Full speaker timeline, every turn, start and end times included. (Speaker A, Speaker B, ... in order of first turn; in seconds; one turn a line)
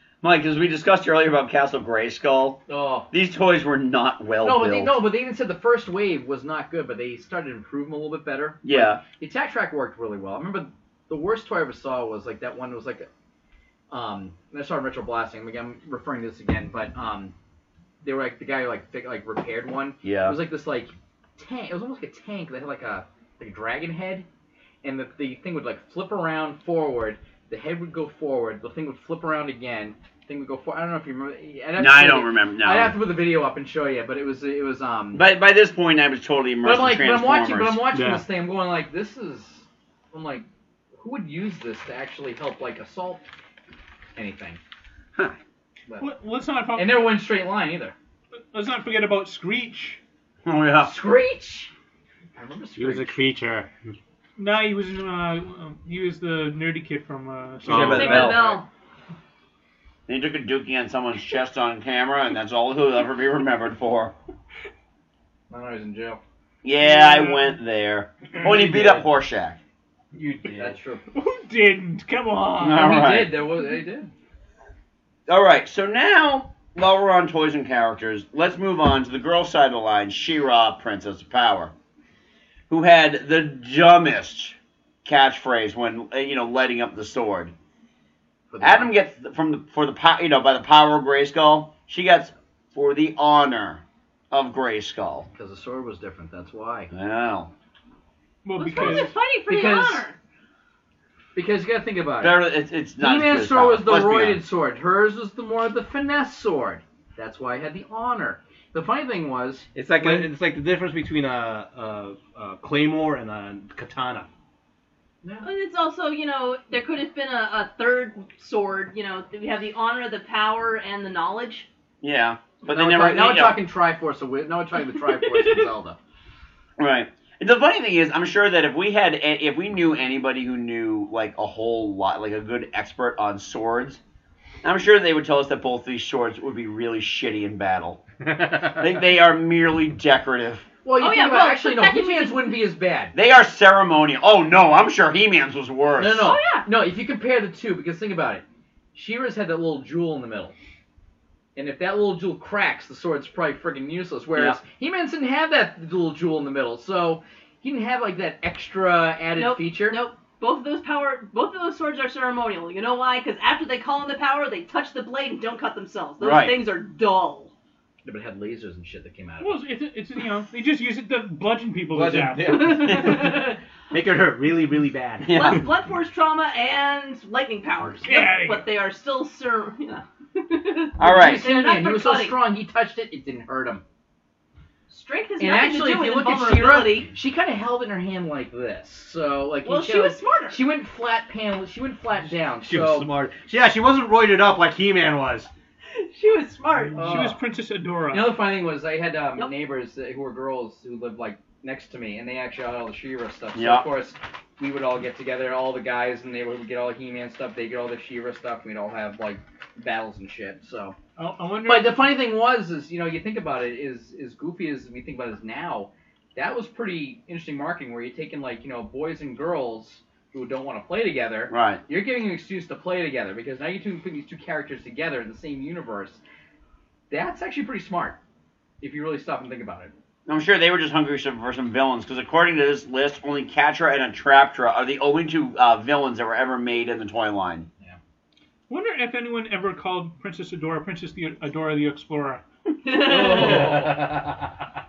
Speaker A: 0.2-5.0
Speaker B: 2.7-3.1
Speaker B: 4.4-13.1
Speaker A: 8.6-9.0
Speaker B: 13.9-17.3
Speaker B: 18.0-24.3
Speaker A: 20.0-20.4
Speaker B: 24.8-35.2
Speaker A: 31.8-33.0
Speaker A: 35.1-37.8
Speaker B: 36.6-43.2
Speaker C: 37.9-38.3
Speaker B: 44.2-44.6
Speaker D: 46.0-47.2
Speaker B: 46.7-48.0
Speaker D: 48.5-50.0
Speaker A: 50.5-50.9
Speaker B: 50.8-51.7
Speaker B: 52.4-53.2
Speaker C: 52.8-53.7
Speaker D: 54.4-58.4
Speaker C: 57.6-58.3
Speaker A: 57.7-58.6
Speaker E: 57.8-58.7
Speaker A: 60.1-64.1
Speaker B: 65.5-66.2
Speaker A: 66.6-69.6
Speaker D: 66.8-67.6
Speaker C: 68.4-69.0
Speaker B: 70.2-71.0
Speaker D: 71.1-73.1
Speaker A: 72.6-73.4
Speaker B: 72.7-74.1
Speaker A: 75.3-81.7
Speaker A: 82.7-87.5
Speaker B: 88.5-88.9
Speaker A: 88.6-95.3
Speaker B: 95.3-96.9
Speaker A: 96.9-97.5
Speaker D: 98.4-99.2
Speaker E: 98.5-100.2
Speaker B: 98.8-100.0
Speaker B: 101.3-102.4
Speaker A: 102.2-104.4
Speaker B: 103.0-110.3
Speaker C: 109.8-114.3
Speaker B: 115.2-115.5
Speaker E: 115.4-121.7
Speaker A: 122.0-123.6
Speaker B: 122.7-126.0
Speaker E: 125.3-125.7
Speaker A: 126.8-134.0
Speaker A: 134.6-138.0
Speaker A: 138.7-140.7
Speaker B: 140.8-143.1
Speaker E: 141.0-142.6
Speaker A: 143.1-146.4
Speaker B: 146.0-150.5
Speaker E: 146.2-146.7
Speaker B: 151.6-160.0
Speaker E: 159.3-167.5
Speaker A: 166.2-166.6
Speaker B: 168.1-169.6
Speaker D: 169.4-173.0
Speaker C: 171.9-175.6
Speaker E: 172.6-173.6
Speaker A: 175.2-175.7
Speaker E: 175.3-182.4
Speaker D: 178.0-178.7
Speaker A: 181.0-181.4
Speaker B: 181.0-183.8
Speaker E: 184.9-187.1
Speaker B: 185.4-193.1
Speaker E: 189.6-190.7
Speaker C: 192.6-195.5
Speaker E: 195.9-197.2
Speaker D: 196.8-198.5
Speaker B: 197.0-197.4
Speaker B: 198.1-211.0
Speaker A: 203.6-203.9
Speaker D: 211.2-212.1
Speaker B: 211.7-226.2
Speaker A: 221.5-221.8
Speaker B: 227.1-228.2
Speaker B: 228.8-229.9
Speaker A: 230.3-237.7
Speaker D: 238.7-242.4
Speaker E: 242.8-243.9
Speaker B: 243.0-244.3